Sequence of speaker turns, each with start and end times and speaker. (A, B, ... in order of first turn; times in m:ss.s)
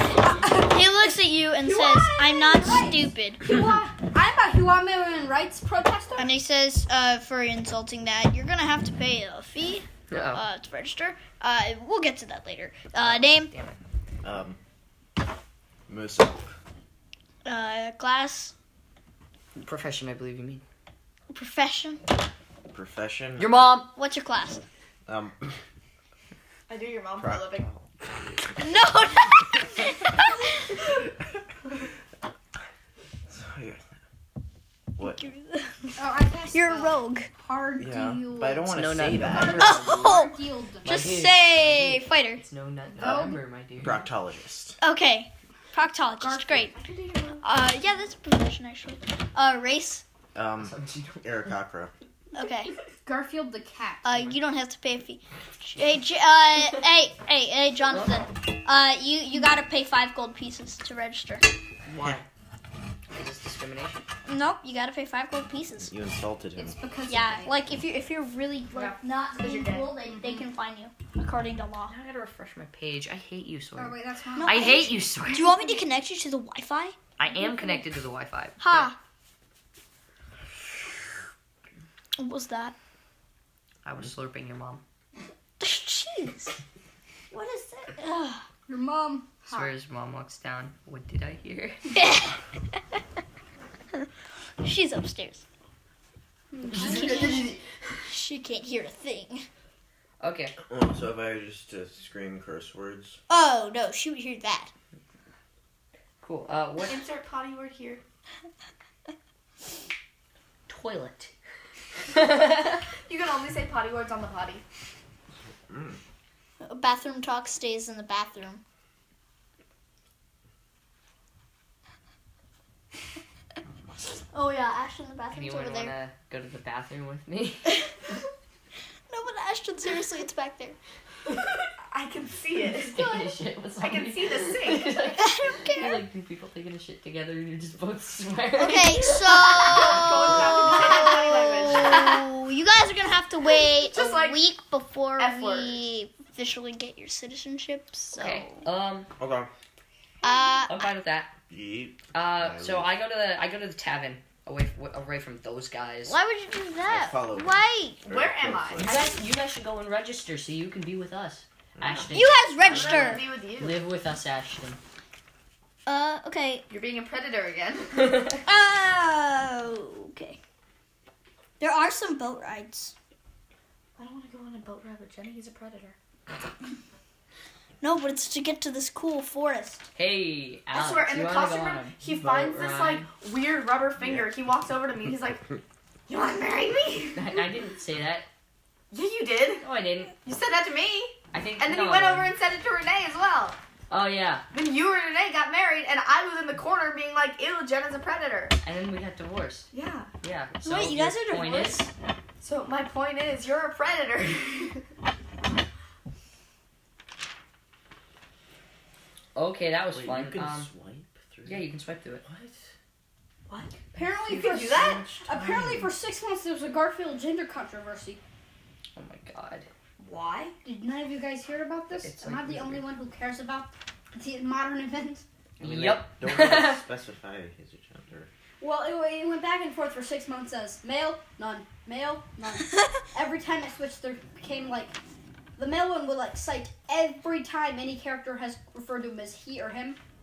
0:00.2-0:00.8 A
0:00.2-0:03.4 B
0:01.6-0:06.3 A
0:06.2-0:13.5 B
0:10.1-0:10.4 C
0:13.0-0:13.8 C
0:14.2-0:14.6 D
0:15.9-0:16.5 D
0:17.4-0:18.5 B
0:19.6-0:20.6 C
0:21.3-0:22.0 B
0:22.7-0:23.8 D
0:23.4-0:23.9 C
0:24.0-0:24.6 B
0:25.1-0:25.6 D
0:26.7-0:27.7 E
0:27.2-0:27.8 D
0:28.6-0:30.4 B
0:33.3-0:33.8 D
0:35.0-0:35.2 D
0:35.0-0:36.0 B
0:36.0-0:41.0 A
0:36.5-0:37.3 B
0:37.8-0:39.8 D
0:38.7-0:40.1 C
0:39.6-0:42.4 B
0:40.8-0:44.0 C
0:43.0-0:43.4 A
0:43.0-0:44.8 D
0:44.8-0:46.7 B
0:46.2-0:47.4 E
0:47.4-0:50.0 B
0:50.3-0:51.9 D
0:50.6-0:51.5 C
0:52.3-0:52.7 B
0:53.0-0:54.1 A
0:54.0-1:01.5 B
0:57.9-0:58.2 C
1:01.9-1:02.2 C
1:03.1-1:04.0 C
1:04.3-1:05.9 B
1:05.8-1:06.8 D
1:06.6-1:07.6 A
1:07.1-1:11.9 B
1:08.7-1:10.0 E
1:11.8-1:15.5 C
1:13.8-1:14.8 A
1:14.4-1:17.0 B
1:17.2-1:18.9 C
1:17.3-1:17.8 A
1:18.6-1:19.0 B
1:22.2-1:22.7 B
1:23.8-1:24.8 C
1:25.6-1:26.5 B
1:27.3-1:28.4 B
1:28.7-1:29.6 A
1:29.5-1:31.8 C
1:31.9-1:32.4 B
1:34.6-1:35.4 B
1:36.5-1:37.5 A
1:36.7-1:37.6 C
1:36.8-1:37.4 B
1:38.1-1:39.4 B
1:40.2-1:40.5 C
1:40.7-1:43.2 D
1:43.3-1:44.7 B
1:46.2-1:47.0 C
1:46.8-1:48.0 E
1:50.7-1:51.3 C
1:52.1-1:52.8 C
1:53.0-1:54.6 E
1:55.7-1:56.0 D
1:56.6-1:58.6 B
2:04.3-2:05.9 B
2:05.3-2:07.9 C
2:09.1-2:10.8 B
2:11.9-2:15.1 E
2:12.7-2:20.6 C
2:15.2-2:16.0 B
2:18.6-2:28.6 B
2:19.1-2:22.2 E
2:23.6-2:24.4 E
2:25.2-2:25.8 E
2:28.1-2:29.1 C
2:29.2-2:29.5 D
2:30.2-2:30.7 B
2:30.7-2:31.3 C
2:31.5-2:32.9 D
2:32.1-2:36.2 C
2:36.1-2:38.0 B
2:36.8-2:39.1 D
2:38.1-2:39.0 E
2:38.8-2:44.8 C
2:41.8-2:42.2 D
2:42.1-2:43.2 B
2:42.6-2:43.8 E
2:45.8-2:46.6 B
2:46.7-2:48.4 E
2:48.4-2:50.4 B
2:51.6-2:52.9 B
2:54.0-2:56.0 E
2:57.8-2:59.8 B
2:59.9-3:03.1 C
3:00.7-3:05.6 E
3:06.1-3:07.4 E
3:07.1-3:08.3 C
3:08.9-3:09.6 E
3:09.6-3:10.1 C
3:10.2-3:13.6 E
3:11.3-3:12.3 C
3:13.9-3:14.4 C
3:14.5-3:18.6 E
3:18.6-3:19.7 C
3:19.7-3:20.1 E
3:20.2-3:21.9 C
3:20.6-3:21.9 B
3:22.4-3:24.8 E
3:29.3-3:30.7 C
3:29.9-3:31.7 D
3:31.4-3:32.2 C
3:32.2-3:32.6 D
3:33.5-3:35.2 E
3:33.9-3:38.2 A
3:34.8-3:35.9 D
3:39.0-3:39.7 C
3:40.0-3:40.5 E
3:40.6-3:45.2 A
3:41.9-3:42.8 C
3:45.6-3:46.8 C
3:45.6-3:48.3 D
3:48.6-3:55.0 A
3:55.6-4:00.0 A